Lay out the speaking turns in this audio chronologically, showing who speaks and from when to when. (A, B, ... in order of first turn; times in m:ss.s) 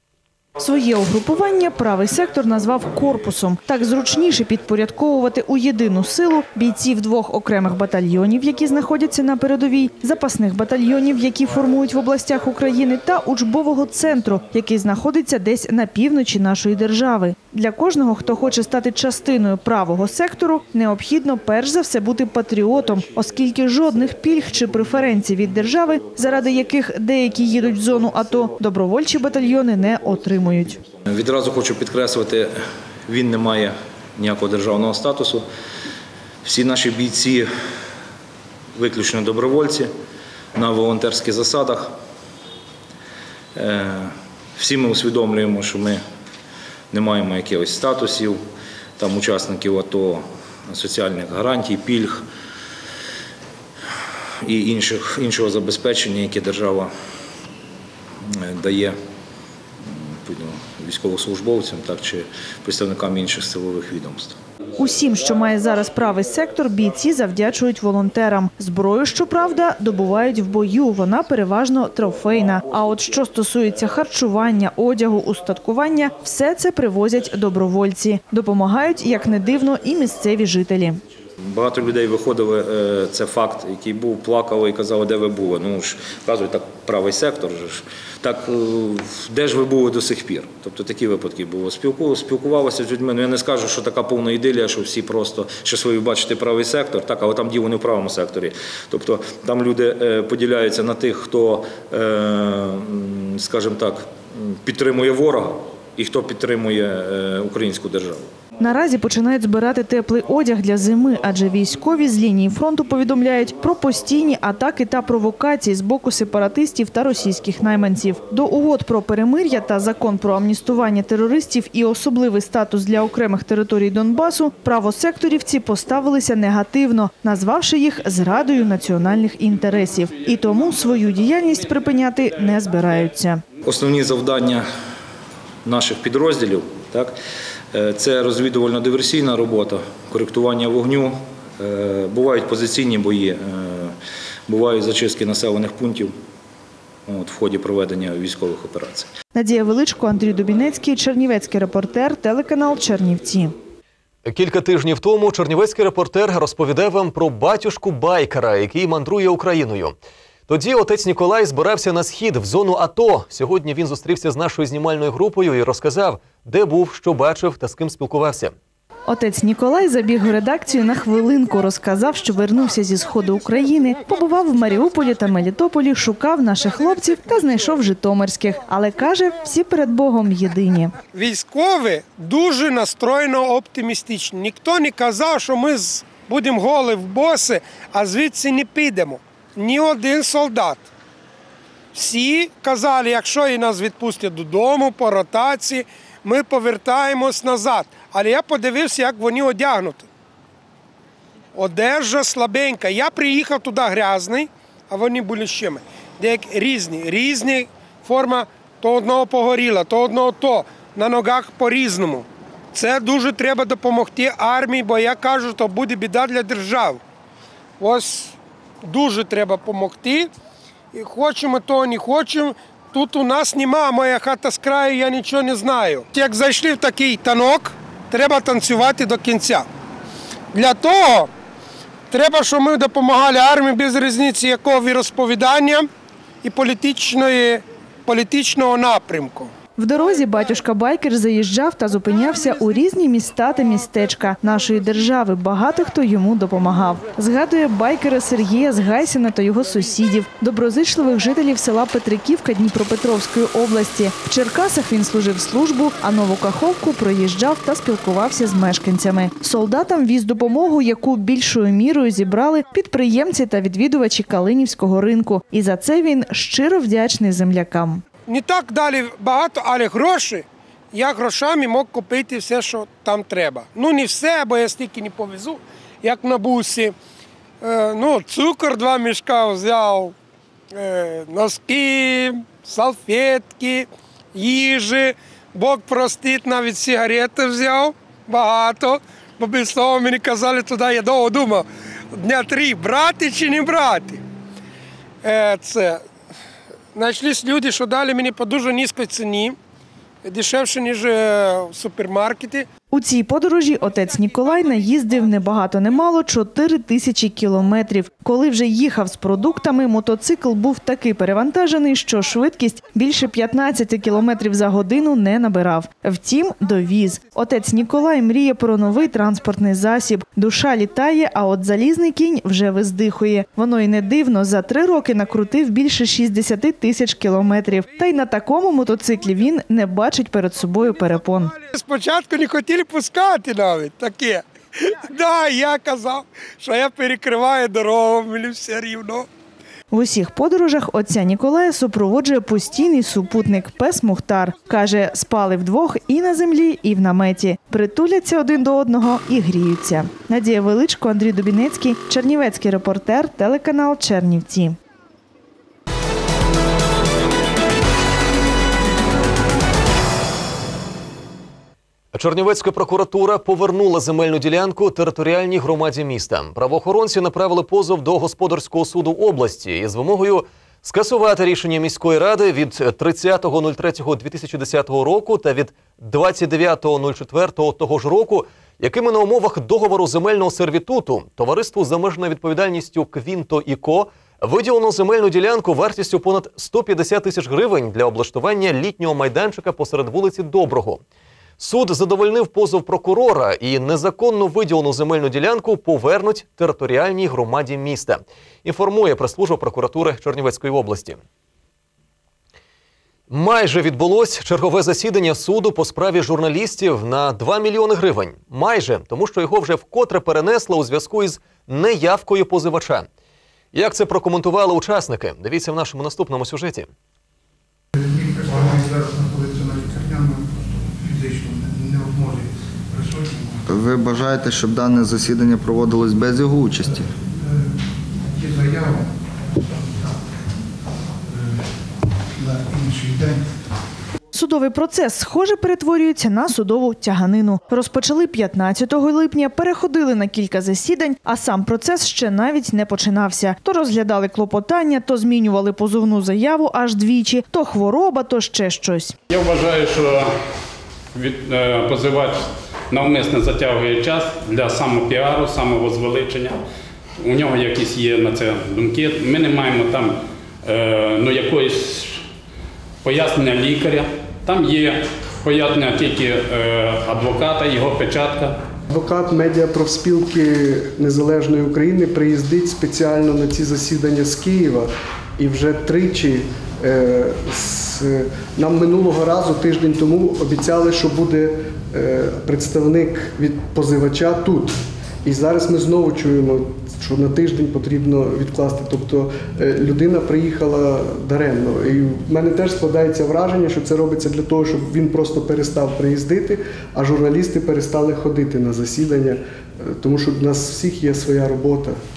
0:00.6-0:30.8 A
0:31.0-0:35.4 B
0:36.4-0:37.5 B
0:38.7-0:39.9 B
0:40.5-0:41.9 B
0:43.5-0:46.0 B
0:46.9-0:48.4 B
0:49.0-0:52.2 B
0:54.4-0:56.9 B
0:58.2-0:59.0 B
0:59.8-1:04.4 B
1:04.8-1:21.0 A
1:21.4-1:48.3 B
1:48.6-2:13.4 A
2:13.6-2:14.7 B
2:15.6-2:17.2 B
2:17.7-2:24.0 B
2:24.5-2:26.1 B
2:27.1-2:29.1 B
2:29.3-2:33.5 A
2:34.2-2:40.0 C
2:40.5-2:48.5 C
2:49.1-3:00.9 A
3:01.1-3:10.9 D
3:11.9-3:20.1 D
3:21.5-3:37.0 D
3:37.8-3:40.3 D
3:40.9-3:49.6 D
3:50.5-3:51.3 D
3:52.1-3:55.9 D
3:56.4-3:59.5 D
3:59.8-4:28.0 A
4:28.3-4:36.9 D
4:37.6-4:40.1 D
4:40.7-4:54.2 D
4:55.2-4:56.0 D
4:56.9-4:59.6 D
5:00.2-5:02.7 D
5:02.9-5:31.5 A
5:31.6-5:39.3 D
5:39.9-5:54.8 A
6:02.1-6:31.0 C
6:31.6-6:41.2 C
6:43.3-6:53.1 C
6:53.7-6:56.9 C
6:57.9-7:03.6 E
7:03.7-7:07.1 F
7:07.4-7:10.2 E
7:11.3-7:11.6 E
7:12.4-7:13.4 E
7:14.3-7:29.1 A
7:29.3-7:30.3 G
7:31.1-7:36.6 G
7:37.2-7:42.2 G
7:43.0-7:48.6 G
7:48.9-8:22.0 H